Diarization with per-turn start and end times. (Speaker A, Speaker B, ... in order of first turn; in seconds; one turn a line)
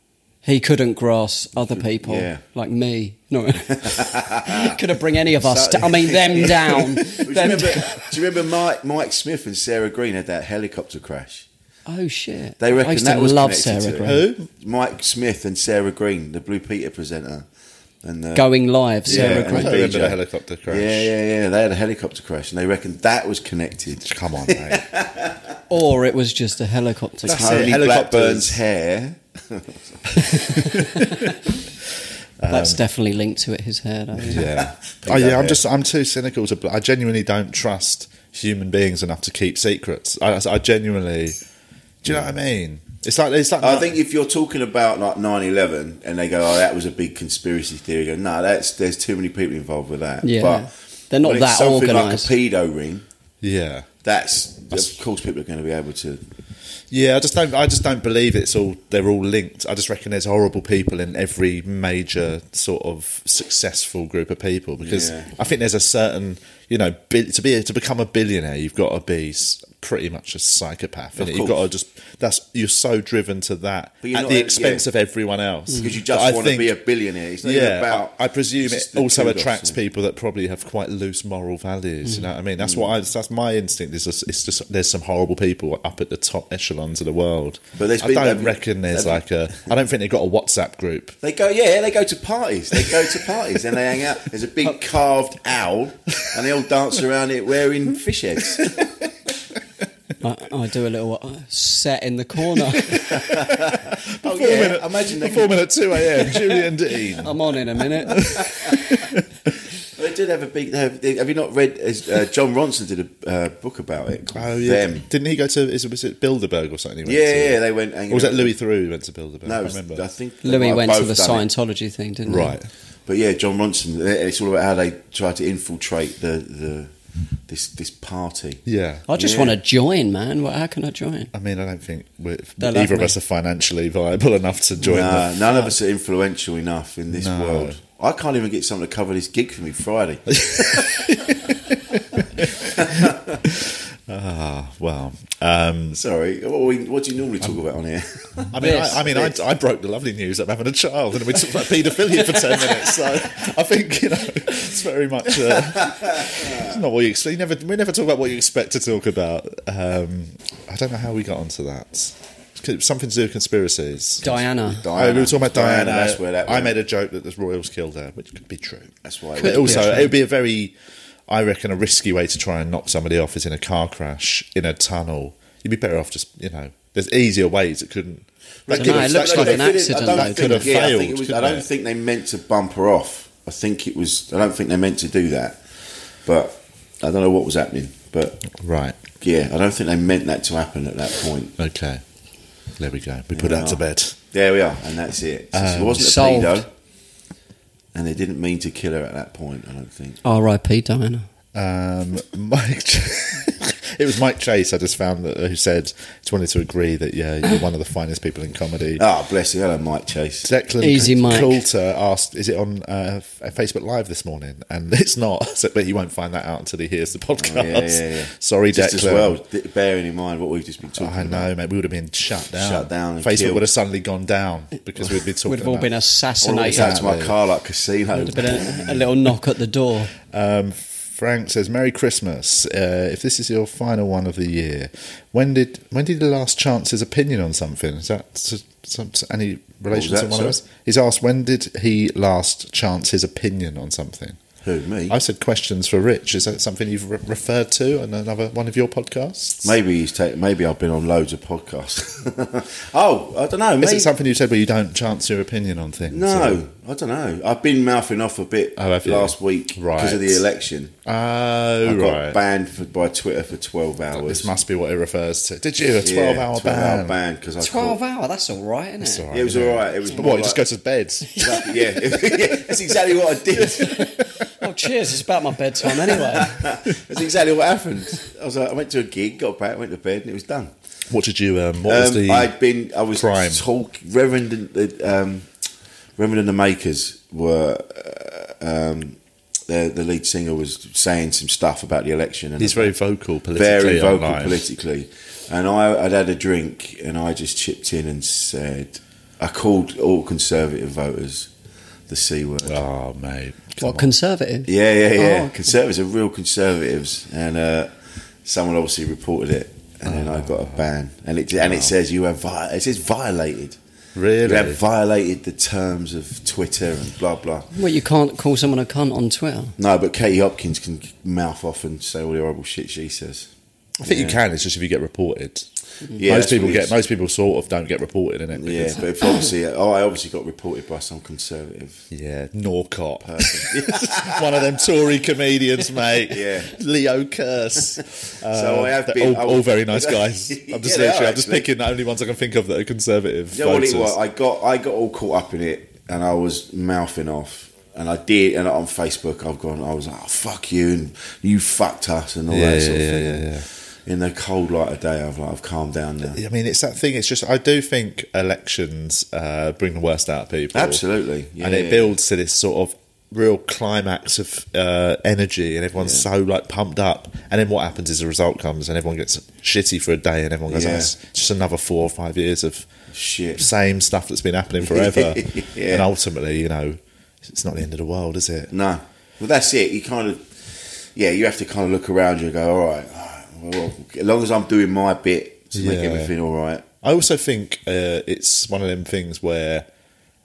Speaker A: 0.4-8.1
Speaker B: 1.8-2.4
Speaker B: 3.8-4.8
Speaker B: 5.4-11.5
Speaker A: 11.9-14.3
Speaker B: 12.6-17.4
Speaker C: 14.0-14.5
Speaker B: 18.0-18.5
Speaker A: 18.4-19.8
Speaker B: 19.0-25.4
Speaker C: 19.1-21.1
Speaker C: 24.0-24.9
Speaker A: 25.7-27.5
Speaker C: 27.2-28.6
Speaker B: 27.3-30.4
Speaker C: 30.3-31.3
Speaker A: 30.3-31.3
Speaker C: 32.4-32.8
Speaker A: 32.5-34.5
Speaker C: 34.2-41.4
Speaker B: 34.4-35.6
Speaker C: 42.0-43.9
Speaker B: 43.6-50.7
Speaker A: 50.2-52.3
Speaker B: 51.2-53.0
Speaker C: 53.4-53.9
Speaker B: 54.0-56.2
Speaker C: 56.9-76.8
Speaker B: 64.8-65.3
Speaker B: 71.2-71.6
Speaker B: 74.0-74.8
Speaker B: 75.8-79.8
Speaker C: 77.4-91.2
Speaker B: 82.6-82.9
Speaker B: 87.8-89.2
Speaker B: 91.2-99.0
Speaker C: 92.8-93.1
Speaker A: 100.2-103.2
Speaker C: 102.6-107.3
Speaker B: 103.1-105.6
Speaker A: 107.1-109.0
Speaker C: 108.1-109.5
Speaker B: 108.2-108.7
Speaker B: 109.9-115.1
Speaker C: 114.3-120.0
Speaker B: 117.0-118.5
Speaker B: 119.4-121.5
Speaker A: 120.4-122.6
Speaker C: 122.3-122.7
Speaker B: 123.1-126.9
Speaker B: 127.5-128.6
Speaker C: 128.7-129.1
Speaker A: 129.1-131.3
Speaker B: 129.2-129.6
Speaker C: 131.3-135.7
Speaker A: 132.6-133.2
Speaker B: 134.9-141.0
Speaker C: 137.1-137.8
Speaker C: 140.4-146.0
Speaker B: 142.2-143.4
Speaker B: 146.0-149.4
Speaker C: 148.5-164.4
Speaker A: 148.6-149.0
Speaker B: 155.7-156.8
Speaker A: 164.2-164.8
Speaker B: 164.7-166.8
Speaker C: 164.9-170.7
Speaker B: 169.0-170.0
Speaker A: 169.4-170.1
Speaker C: 171.3-181.7
Speaker B: 178.7-185.6
Speaker A: 178.8-180.7
Speaker B: 186.2-188.5
Speaker C: 188.5-189.0
Speaker B: 189.2-191.6
Speaker C: 191.6-192.0
Speaker C: 192.8-194.2
Speaker B: 193.3-196.7
Speaker C: 195.5-196.3
Speaker A: 196.0-196.6
Speaker B: 197.9-200.2
Speaker A: 200.2-201.3
Speaker C: 201.6-209.0
Speaker B: 209.0-210.5
Speaker C: 210.4-219.4
Speaker A: 210.8-211.6
Speaker B: 217.4-221.5
Speaker C: 221.0-225.9
Speaker B: 222.5-223.7
Speaker A: 225.4-227.0
Speaker B: 226.4-228.9
Speaker C: 226.7-227.3
Speaker A: 228.1-230.1
Speaker C: 230.2-244.4
Speaker B: 239.9-240.6
Speaker B: 244.6-245.2
Speaker C: 245.1-249.7
Speaker B: 249.6-254.1
Speaker C: 253.8-256.6
Speaker B: 256.1-261.0
Speaker C: 258.8-260.4
Speaker C: 261.1-262.4
Speaker B: 261.8-264.5
Speaker C: 264.1-267.2
Speaker B: 266.0-268.0
Speaker A: 267.6-269.3
Speaker C: 269.0-271.6
Speaker B: 269.3-270.6
Speaker B: 271.3-274.0
Speaker A: 273.7-276.7
Speaker C: 273.8-274.7
Speaker B: 276.1-280.7
Speaker C: 281.1-282.5
Speaker B: 281.9-285.5
Speaker C: 283.1-283.6
Speaker B: 286.2-289.2
Speaker B: 289.7-292.9
Speaker C: 292.6-294.7
Speaker B: 293.5-301.5
Speaker B: 302.1-302.8
Speaker C: 302.6-304.1
Speaker A: 303.8-305.7
Speaker B: 304.7-307.9
Speaker B: 308.4-313.8
Speaker C: 310.1-310.8
Speaker C: 311.6-311.9
Speaker C: 314.1-314.8
Speaker B: 314.4-317.7
Speaker A: 317.7-319.7
Speaker B: 319.8-323.5
Speaker C: 324.0-325.7
Speaker B: 324.0-324.4
Speaker B: 326.1-326.9
Speaker C: 326.3-329.0
Speaker B: 328.6-332.1
Speaker C: 332.1-344.2
Speaker B: 333.2-334.8
Speaker B: 336.2-336.8
Speaker B: 338.4-341.7
Speaker B: 343.5-356.4
Speaker C: 352.5-353.7
Speaker C: 356.4-361.0
Speaker B: 360.7-362.1
Speaker C: 361.6-372.9
Speaker B: 366.0-366.2
Speaker B: 370.7-371.1
Speaker B: 373.1-373.7
Speaker C: 373.6-378.7
Speaker B: 374.8-376.1
Speaker B: 378.7-386.9
Speaker C: 385.7-386.3
Speaker C: 387.0-389.9